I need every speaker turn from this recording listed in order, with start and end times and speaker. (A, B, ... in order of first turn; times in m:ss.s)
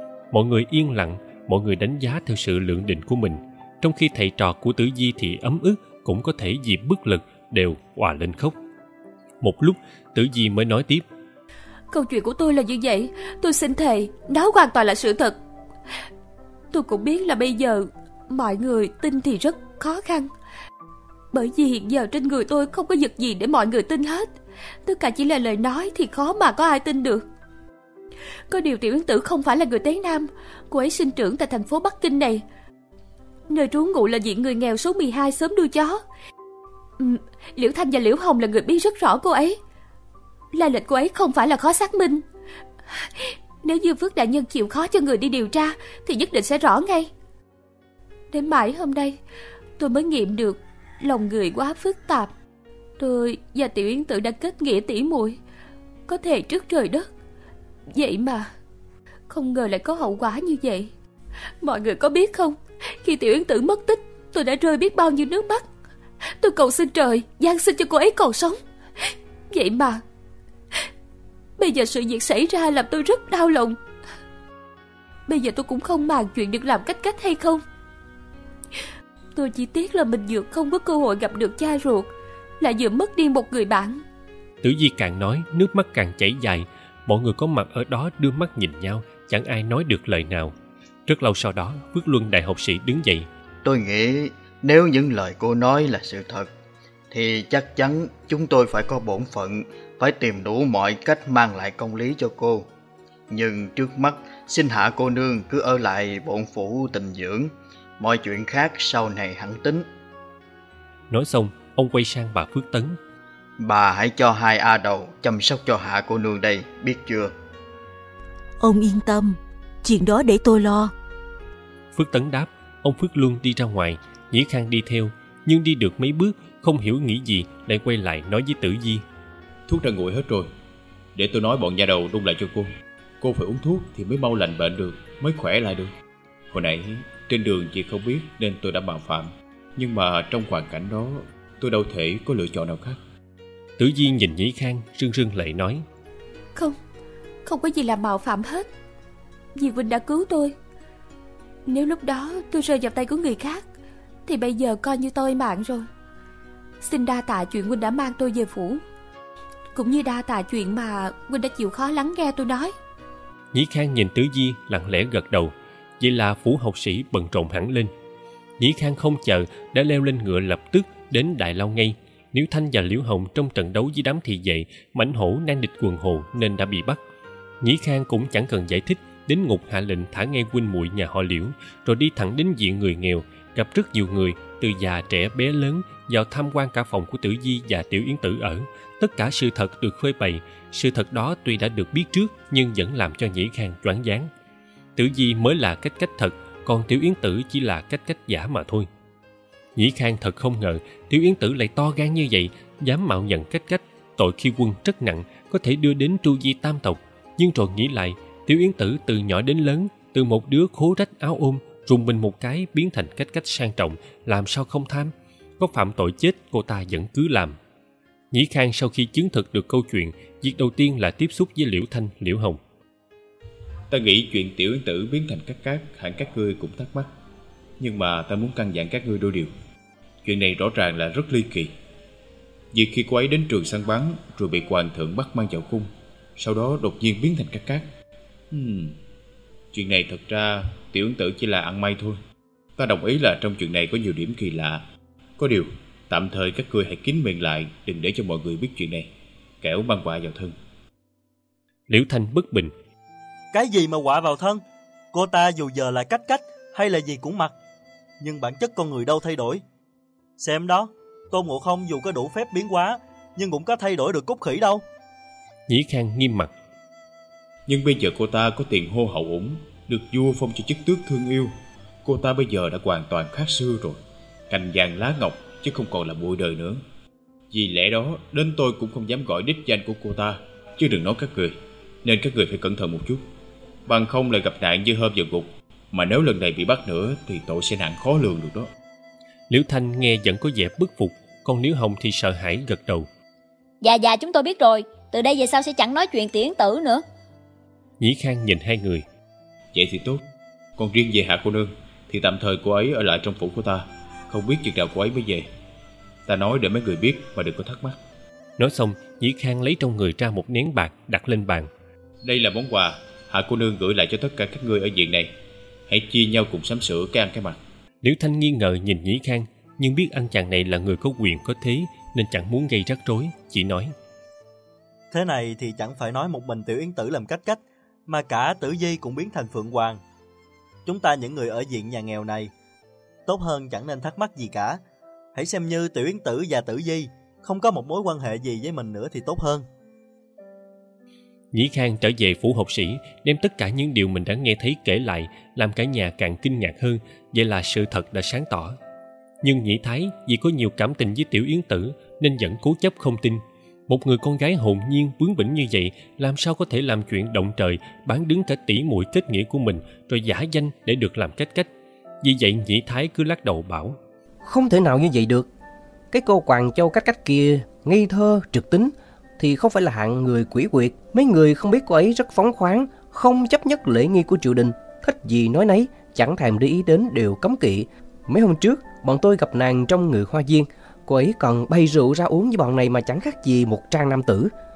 0:00.3-0:08.5 A
0:09.4-0:11.0 A
0:11.9-0:15.4 B
0:16.7-0:20.3 B
0:21.3-0:24.3 B
0:24.8-0:27.3 B
0:28.5-0:32.4 B
0:33.5-0:36.0 B
0:37.0-0:39.6 B
0:40.5-0:42.2 B
0:42.9-0:47.1 B
0:48.3-0:49.2 B
0:49.8-0:52.3 B
0:53.0-0:55.4 B
0:56.1-0:57.1 B
0:57.9-0:58.5 B
0:59.3-1:00.9 B
1:01.6-1:05.7 B
1:06.4-1:10.0 B
1:11.6-1:13.8 B
1:15.3-1:17.6 B
1:19.3-1:24.0 B
1:24.6-1:30.5 A
1:31.1-1:33.3 A
1:33.6-1:36.5 C
1:37.1-1:42.7 C
1:43.3-1:49.8 C
1:51.1-1:53.0 A
1:53.6-1:57.3 C
1:58.6-2:00.9 D
2:01.9-2:09.0 A
2:09.7-2:10.5 E
2:11.1-2:12.7 E
2:13.2-2:15.9 E
2:16.5-2:23.0 E
2:23.8-2:25.8 A
2:27.4-2:28.7 B
2:29.6-2:30.5 B
2:31.6-2:33.6 B
2:34.2-2:35.9 B
2:36.8-2:38.8 B
2:39.7-2:42.7 B
2:43.5-2:47.9 A
2:48.6-2:57.0 A
2:57.6-3:14.3 A
3:15.0-3:18.9 A
3:19.8-3:37.6 A
3:38.3-3:42.6 A
3:43.9-3:47.1 E
3:47.8-3:49.5 E
3:50.2-3:51.7 E
3:52.7-3:57.9 E
3:58.5-3:59.0 E
3:59.7-4:02.2 E
4:02.8-4:04.8 E
4:05.4-4:09.1 E
4:09.6-4:10.5 E
4:11.9-4:12.7 A
4:13.5-4:14.6 F
4:15.1-4:17.5 F
4:18.2-4:19.6 F
4:20.4-4:24.8 F
4:25.7-4:26.5 A
4:27.7-4:31.5 E
4:32.0-4:36.8 E
4:37.5-4:43.2 E
4:43.9-4:48.7 E
4:49.5-4:53.1 A
4:53.8-4:57.0 G
4:58.0-4:59.0 A
4:59.7-5:00.2 E
5:00.8-5:05.5 E
5:06.3-5:08.0 E
5:08.6-5:11.7 A
5:12.2-5:15.3 E
5:15.9-5:17.6 E
5:18.0-5:23.9 A
5:25.1-5:30.0 F
5:30.8-5:32.5 F
5:33.2-5:34.8 F
5:35.3-5:39.6 F
5:41.5-5:48.8 A
5:49.4-6:01.7 A
6:02.2-6:04.0 A
6:04.4-6:05.5 H
6:06.1-6:24.5 H